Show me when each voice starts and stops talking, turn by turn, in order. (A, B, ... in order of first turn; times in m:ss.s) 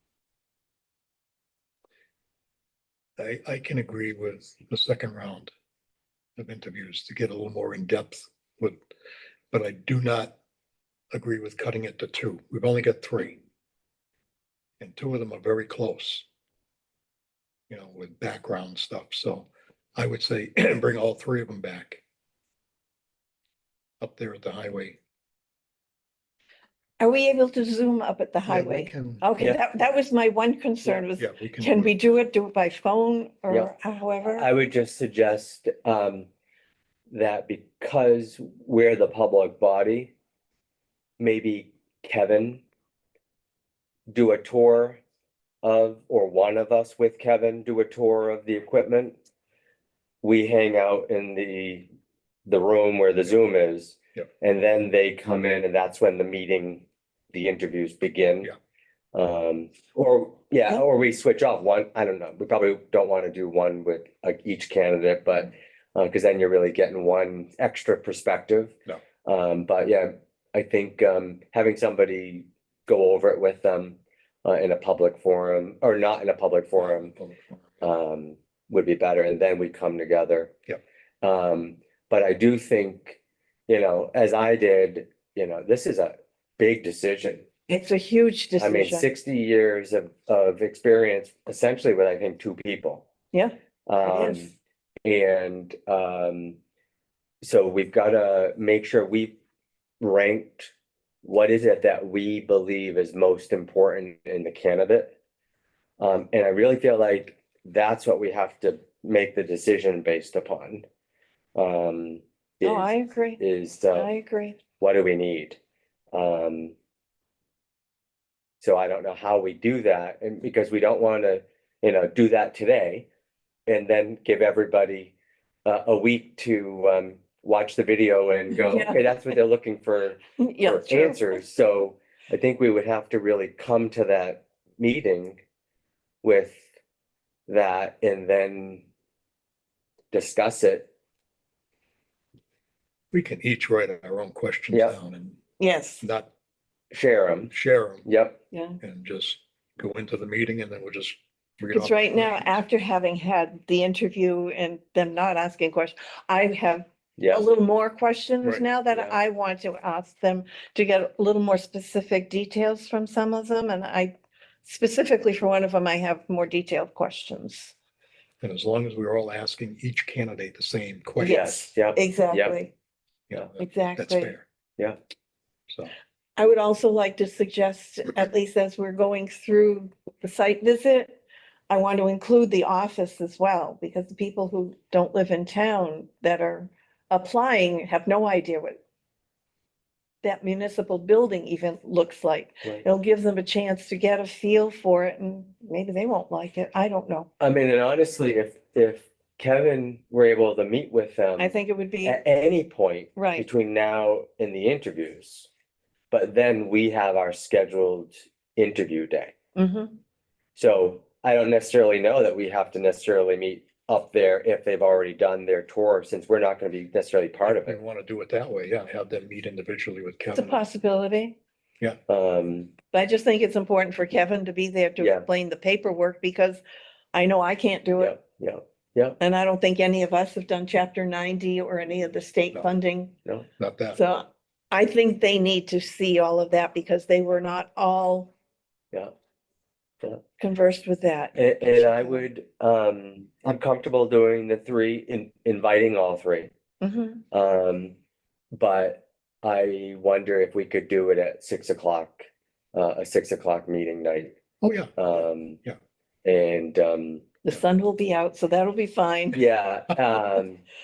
0:03.2-0:05.5 A
0:06.4-0:08.8 A
0:09.5-0:10.4 A
0:11.1-0:13.4 A
0:14.8-0:16.3 A
0:17.7-0:22.0 A
0:24.0-0:25.0 A
0:27.0-0:34.5 B
0:28.5-0:29.2 A
0:31.2-0:32.0 A
0:34.3-0:36.3 C
0:37.1-0:40.1 C
0:41.2-0:42.6 C
0:44.1-0:45.0 C
0:45.6-0:49.2 C
0:50.2-0:51.9 C
0:52.5-0:58.5 C
0:59.1-1:17.1 C
1:16.8-1:17.8 A
1:17.8-1:20.5 C
1:21.2-1:27.4 C
1:27.7-1:29.1 B
1:28.6-1:33.1 C
1:33.3-1:34.5 B
1:33.9-1:34.5 C
1:35.0-1:36.6 C
1:37.4-1:39.4 C
1:40.0-1:40.7 C
1:41.2-1:45.1 C
1:46.0-1:50.8 C
1:51.6-1:54.1 C
1:52.6-1:53.4 B
1:53.9-1:54.6 B
1:54.8-1:55.6 C
1:56.1-1:56.7 C
1:58.6-2:03.1 C
2:03.7-2:15.4 C
2:08.6-2:09.0 B
2:10.4-2:11.3 B
2:16.2-2:16.7 C
2:17.5-2:18.8 C
2:20.1-2:20.9 C
2:23.1-2:25.4 A
2:25.6-2:26.0 B
2:26.0-2:26.3 A
2:26.9-2:27.5 C
2:27.5-2:28.1 A
2:28.0-2:28.4 C
2:28.5-2:28.8 B
2:28.8-2:32.6 A
2:31.7-2:44.1 B
2:37.2-2:37.4 C
2:38.9-2:39.2 C
2:44.6-2:47.7 B
2:48.4-2:51.4 A
2:51.2-2:52.7 B
2:51.2-2:52.6 C
2:53.3-2:54.5 A
2:53.6-2:54.3 B
2:56.4-3:01.2 B
3:01.7-3:08.8 B
3:10.2-3:17.3 B
3:17.4-3:25.5 C
3:21.4-3:22.2 B
3:23.2-3:23.5 B
3:26.1-3:29.3 C
3:29.6-3:30.0 B
3:30.6-3:37.8 C
3:37.4-3:40.6 A
3:40.4-3:41.4 B
3:42.1-3:42.7 C
3:42.9-3:46.6 B
3:45.0-3:45.3 C
3:47.1-3:48.2 B
3:48.0-3:49.2 C
3:49.2-3:53.1 B
3:53.6-3:54.0 A
3:54.0-3:58.3 B
4:00.4-4:02.2 B
4:01.4-4:06.5 C
4:06.8-4:07.2 B
4:07.3-4:08.0 C
4:08.5-4:14.4 C
4:14.6-4:15.8 A
4:15.0-4:15.6 C
4:16.2-4:17.3 C
4:17.4-4:19.4 B
4:19.3-4:20.6 C